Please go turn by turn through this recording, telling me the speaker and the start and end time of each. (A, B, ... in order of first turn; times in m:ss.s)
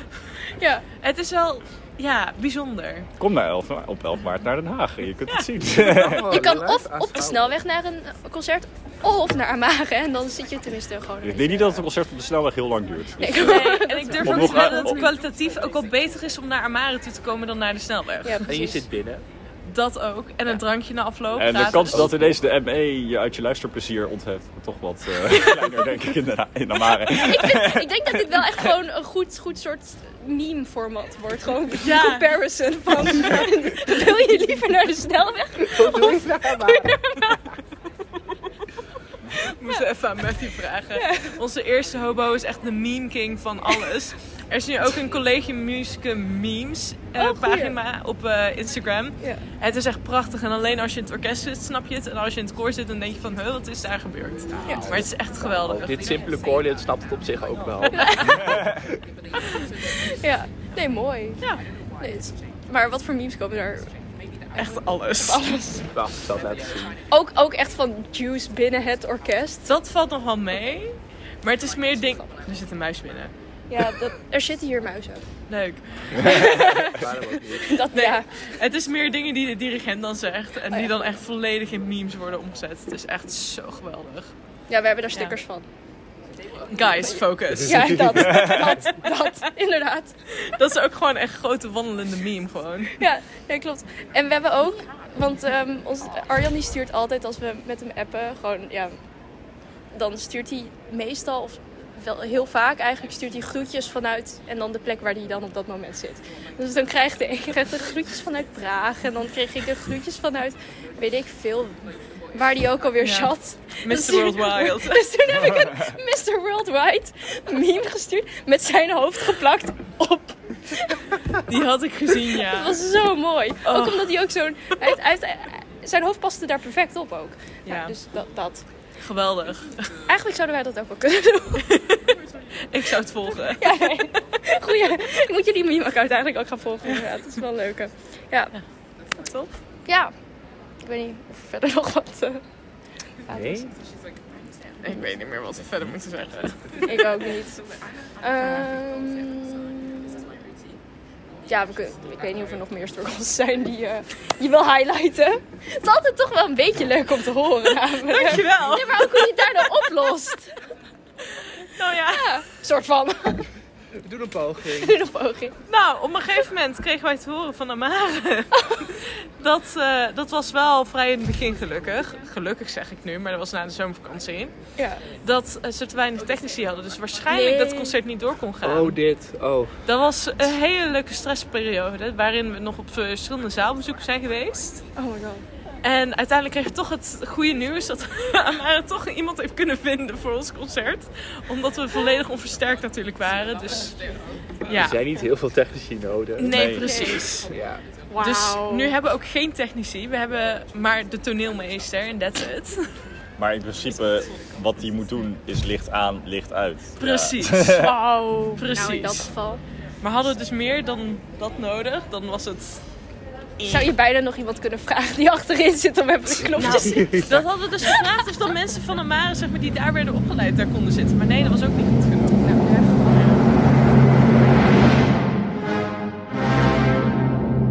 0:00.6-0:00.8 A
0:01.0-0:03.1 B
0:03.2-0:06.4 C
0:05.8-0:07.6 D
0:06.3-0:11.8 A
0:11.2-0:13.6 C
0:13.2-0:15.0 A
0:13.3-0:18.8 B
0:14.2-0:15.1 C
0:18.2-0:18.7 A
0:18.4-0:19.2 D
0:19.7-0:22.1 B
0:21.4-0:28.7 C
0:21.9-0:22.4 D
0:26.9-0:37.5 A
0:31.8-0:32.3 B
0:35.7-0:37.0 D
0:39.4-0:56.4 B
0:41.0-0:41.4 A
0:47.2-0:47.8 A
0:49.2-0:49.4 A
0:54.6-0:55.1 A
0:55.5-0:58.9 D
0:58.0-0:58.3 A
0:58.0-0:58.3 B
0:59.8-1:01.4 A
1:02.0-1:03.9 A
1:04.6-1:05.4 B
1:05.2-1:05.9 A
1:05.9-1:07.0 D
1:07.1-1:09.7 A
1:09.6-1:13.3 B
1:13.7-1:15.2 A
1:15.5-1:16.6 B
1:16.2-1:18.4 A
1:16.9-1:17.8 D
1:17.9-1:24.3 B
1:24.7-1:25.6 A
1:26.7-1:29.1 B
1:27.6-1:30.1 A
1:30.4-1:33.0 B
1:33.0-1:39.0 A
1:39.9-1:51.8 A
1:52.3-2:01.2 A
1:53.0-1:53.3 B
1:53.8-1:55.1 B
2:01.4-2:02.8 B
2:02.4-2:08.7 A
2:03.6-2:04.2 B
2:07.7-2:08.0 B
2:09.0-2:09.8 B
2:10.1-2:11.7 A
2:12.7-2:13.8 B
2:13.6-2:18.5 A
2:19.2-2:19.6 B
2:19.9-2:20.1 A
2:20.8-2:22.4 A
2:23.3-2:23.6 A
2:23.3-2:23.7 D
2:24.8-2:27.2 B
2:26.8-2:27.6 A
2:28.2-2:30.3 A
2:31.5-2:40.6 A
2:38.0-2:39.7 B
2:41.3-2:42.4 B
2:42.0-2:43.5 A
2:44.0-2:45.0 D
2:44.8-2:45.6 A
2:45.7-2:54.5 B
2:54.8-2:55.0 A
2:55.2-2:59.0 B
2:57.3-2:58.0 A
2:58.6-2:59.8 D
2:59.9-3:04.8 B
3:05.0-3:05.4 A
3:05.8-3:14.1 B
3:14.6-3:15.0 B
3:14.7-3:16.6 D
3:16.4-3:17.5 B
3:16.5-3:16.9 C
3:16.7-3:17.4 A
3:17.5-3:17.8 D
3:18.1-3:19.0 A
3:18.2-3:22.9 B
3:23.4-3:28.0 C
3:27.0-3:27.9 B
3:27.8-3:29.6 A
3:28.6-3:29.3 B
3:30.0-3:32.8 B
3:33.6-3:33.9 B
3:33.7-3:38.0 A
3:36.6-3:42.4 B
3:42.4-3:43.1 A
3:43.1-3:43.4 B